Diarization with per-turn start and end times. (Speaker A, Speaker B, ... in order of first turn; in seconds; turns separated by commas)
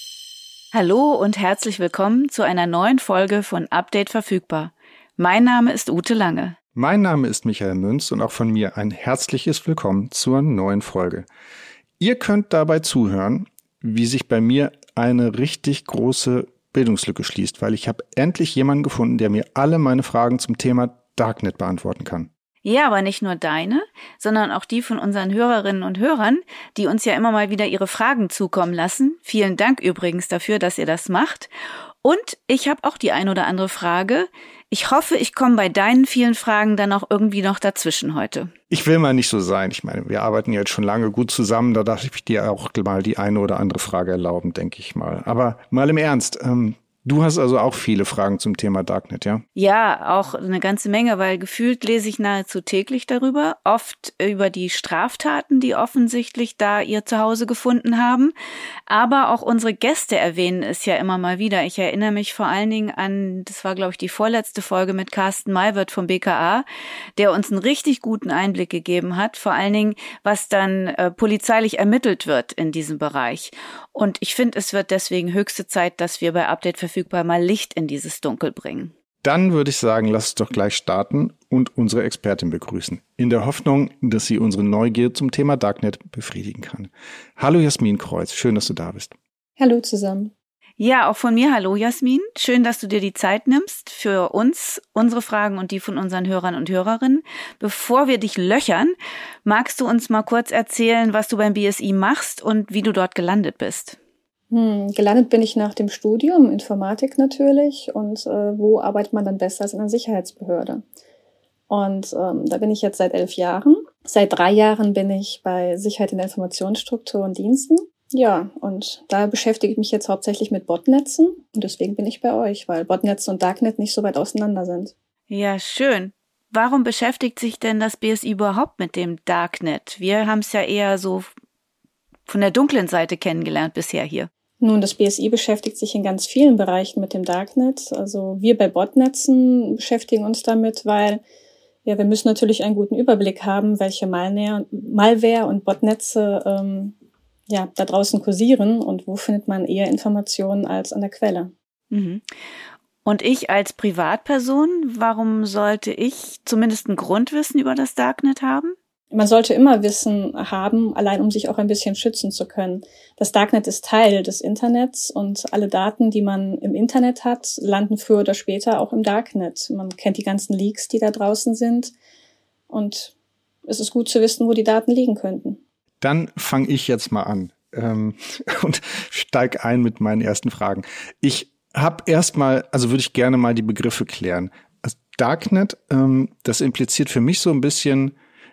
Speaker A: 0.7-6.6, Speaker B: 6.7-11.3, Speaker B: 12.0-22.3, Speaker A: 22.6-31.5, Speaker A: 32.0-38.5, Speaker B: 38.7-49.4, Speaker A: 49.5-58.3, Speaker A: 58.9-66.6, Speaker A: 67.2-78.9, Speaker B: 79.2-89.1, Speaker C: 89.6-90.3, Speaker A: 90.8-104.0, Speaker C: 104.5-110.8, Speaker C: 111.7-124.9, Speaker A: 125.3-131.3, Speaker A: 132.3-134.3, Speaker C: 134.6-141.2, Speaker C: 141.8-146.9, Speaker C: 147.5-151.5, Speaker A: 151.9-152.2, Speaker A: 153.0-158.7, Speaker C: 159.1-171.9, Speaker C: 172.7-173.1, Speaker C: 173.7-175.6, Speaker B: 176.0-188.1